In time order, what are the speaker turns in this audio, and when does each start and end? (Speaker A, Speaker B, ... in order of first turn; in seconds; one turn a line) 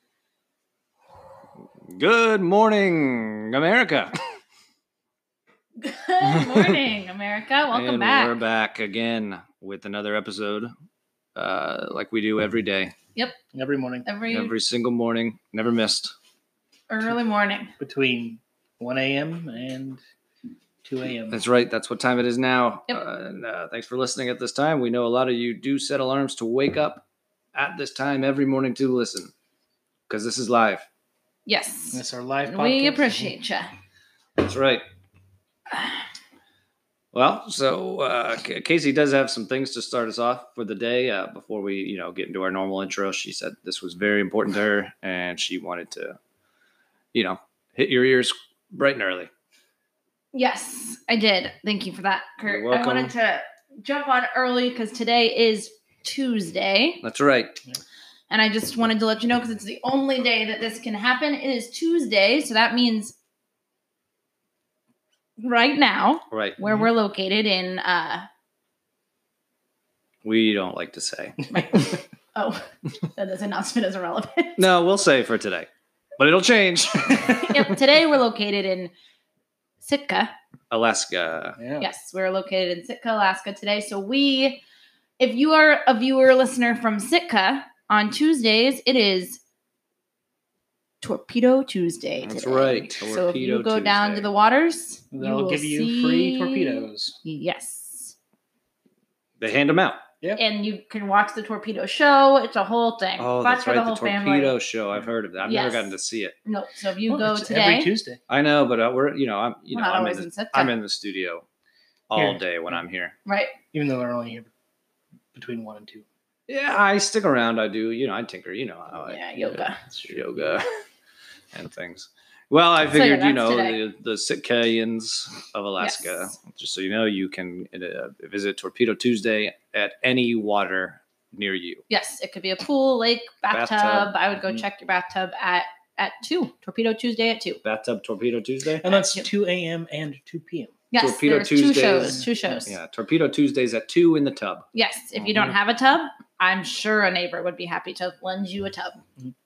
Speaker A: 1.9-4.2
Speaker B: 5.8-8.3
Speaker A: 6.2-6.8
Speaker A: 7.7-10.7
Speaker A: 11.3-12.9
Speaker C: 13.5-14.1
Speaker B: 14.0-14.5
Speaker A: 14.3-16.1
Speaker B: 16.9-17.7
Speaker C: 17.8-20.0
Speaker C: 20.8-21.4
Speaker A: 21.3-29.3
Speaker A: 30.1-30.9
Speaker B: 31.4-33.7
Speaker C: 31.9-33.3
Speaker A: 34.4-34.8
Speaker A: 37.1-46.2
Speaker A: 47.1-49.3
Speaker B: 50.3-57.0
Speaker A: 52.5-53.1
Speaker A: 57.0-57.6
Speaker B: 58.3-63.1
Speaker B: 65.4-68.3
Speaker A: 66.3-66.6
Speaker A: 70.2-71.4
Speaker B: 71.5-74.6
Speaker A: 74.6-77.7
Speaker B: 77.3-78.9
Speaker B: 79.8-80.3
Speaker A: 80.7-81.6
Speaker C: 81.6-81.8
Speaker B: 81.8-84.6
Speaker B: 85.2-89.4
Speaker B: 91.0-98.1
Speaker A: 92.2-94.3
Speaker C: 95.1-97.1
Speaker A: 99.4-100.0
Speaker B: 100.4-104.5
Speaker A: 103.2-106.3
Speaker B: 105.5-107.9
Speaker C: 107.1-108.2
Speaker A: 108.3-111.4
Speaker B: 109.7-110.7
Speaker A: 112.1-113.1
Speaker C: 112.2-112.4
Speaker B: 113.2-113.5
Speaker C: 113.7-114.5
Speaker C: 115.3-116.0
Speaker A: 116.5-120.7
Speaker B: 119.0-119.8
Speaker C: 119.9-120.2
Speaker A: 121.5-131.8
Speaker B: 122.8-123.8
Speaker B: 125.8-126.3
Speaker B: 131.9-137.6
Speaker A: 133.5-134.1
Speaker A: 137.6-138.8
Speaker C: 138.8-140.7
Speaker B: 138.9-139.2
Speaker B: 140.9-142.7
Speaker A: 141.0-144.7
Speaker C: 142.2-142.6
Speaker B: 144.7-149.0